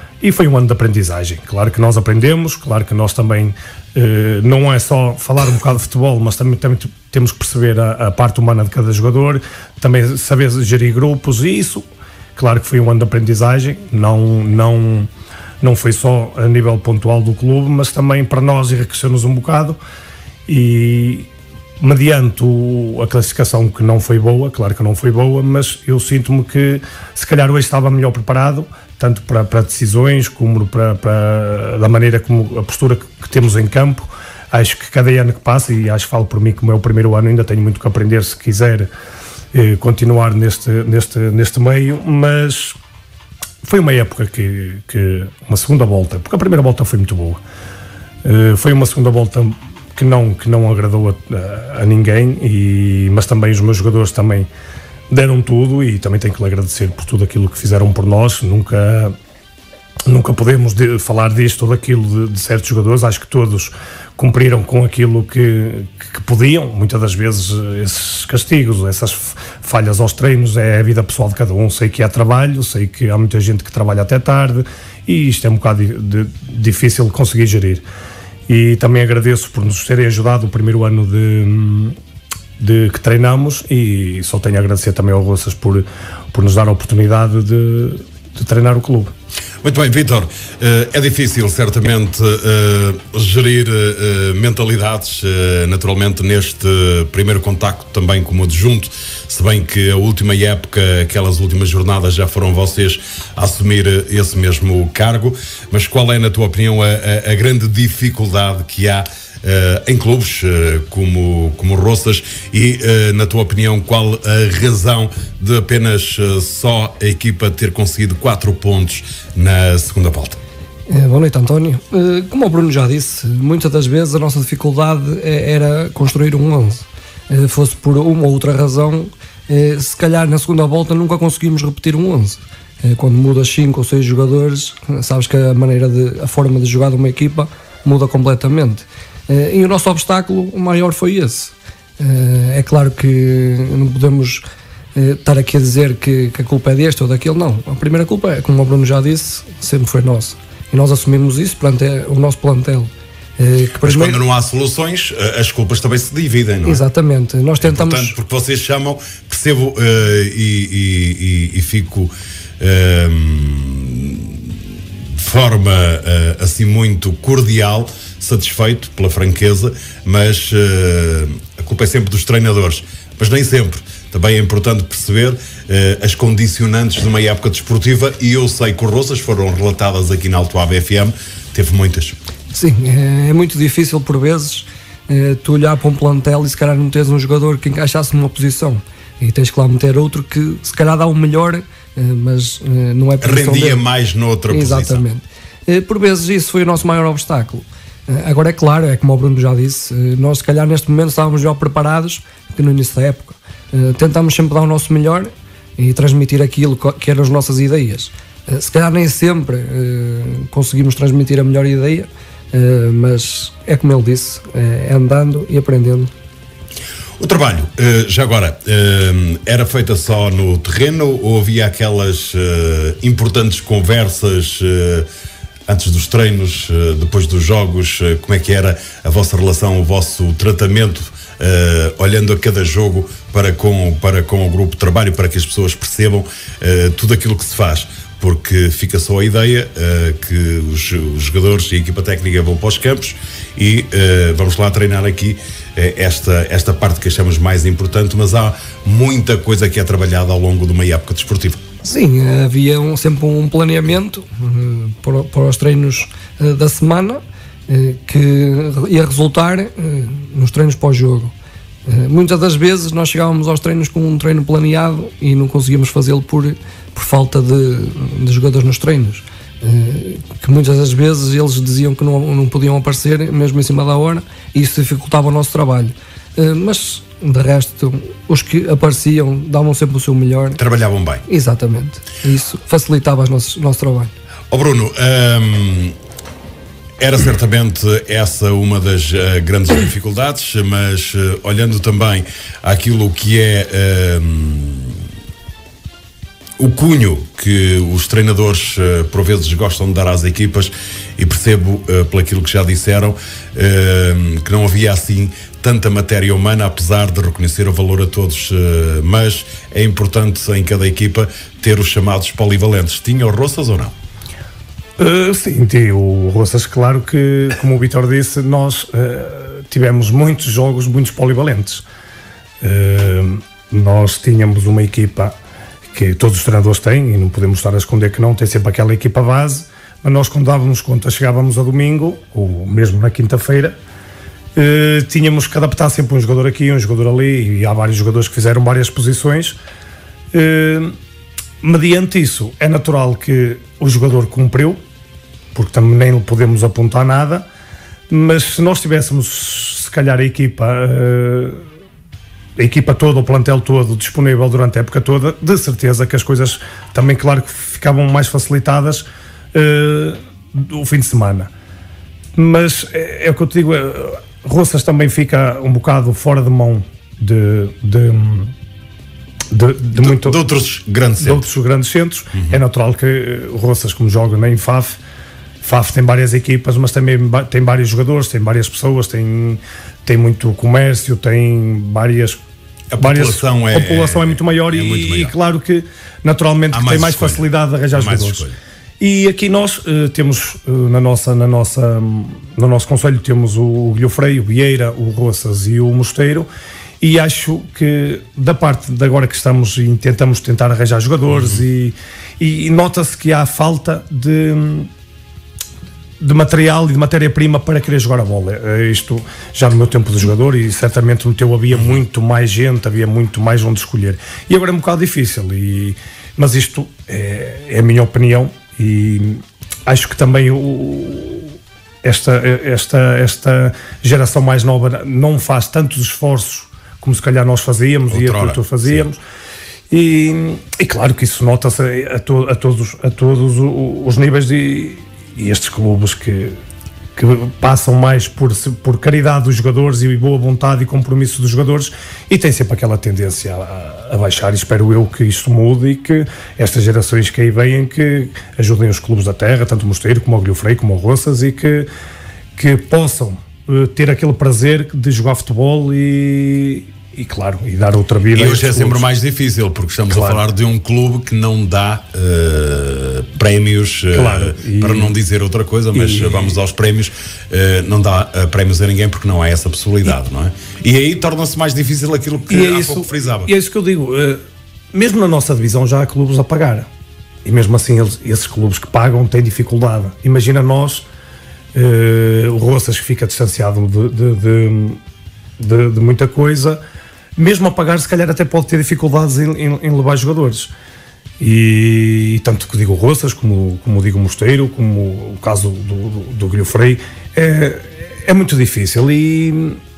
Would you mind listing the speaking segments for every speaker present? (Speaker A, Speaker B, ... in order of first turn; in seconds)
Speaker A: 0.2-11.8, 12.3-15.1, 15.6-19.8, 20.5-21.3, 21.8-38.9, 39.5-42.8, 43.6-47.4, 48.2-54.5, 55.1-59.1, 60.0-77.8, 78.5-82.0, 82.6-89.1, 315.0-321.8, 322.6-325.3, 325.9-333.8, 334.5-339.6, 340.3-340.9, 341.6-344.8, 345.5-347.4, 348.1-351.6, 352.6-361.5, 362.3-368.5, 369.5-370.4, 371.2-375.0, 375.6-382.4, 383.0-388.4, 389.0-396.5, 397.0-404.9, 406.2-429.2, 429.9-436.6, 437.1-451.9, 452.6-459.1, 460.1-460.4, 464.1-465.1, 465.9-466.6, 472.5-474.4, 474.9-476.9, 477.4-481.1, 481.7-485.0, 485.6-486.8, 487.4-490.7, 491.4-499.8
Speaker B: 89.6-120.4, 153.8-156.8, 157.6-164.6, 165.2-182.1, 193.2-195.0, 217.2-225.1, 225.7-251.6, 280.6-281.2, 284.5-285.9, 287.0-295.0, 296.6-313.9, 369.9-371.4, 382.9-385.3, 386.7-388.5, 428.1-429.1, 458.3-473.5
Speaker C: 120.9-144.4, 144.9-154.2, 156.6-158.2, 182.5-193.8, 194.5-216.1, 251.8-261.3, 261.9-280.6, 281.3-284.1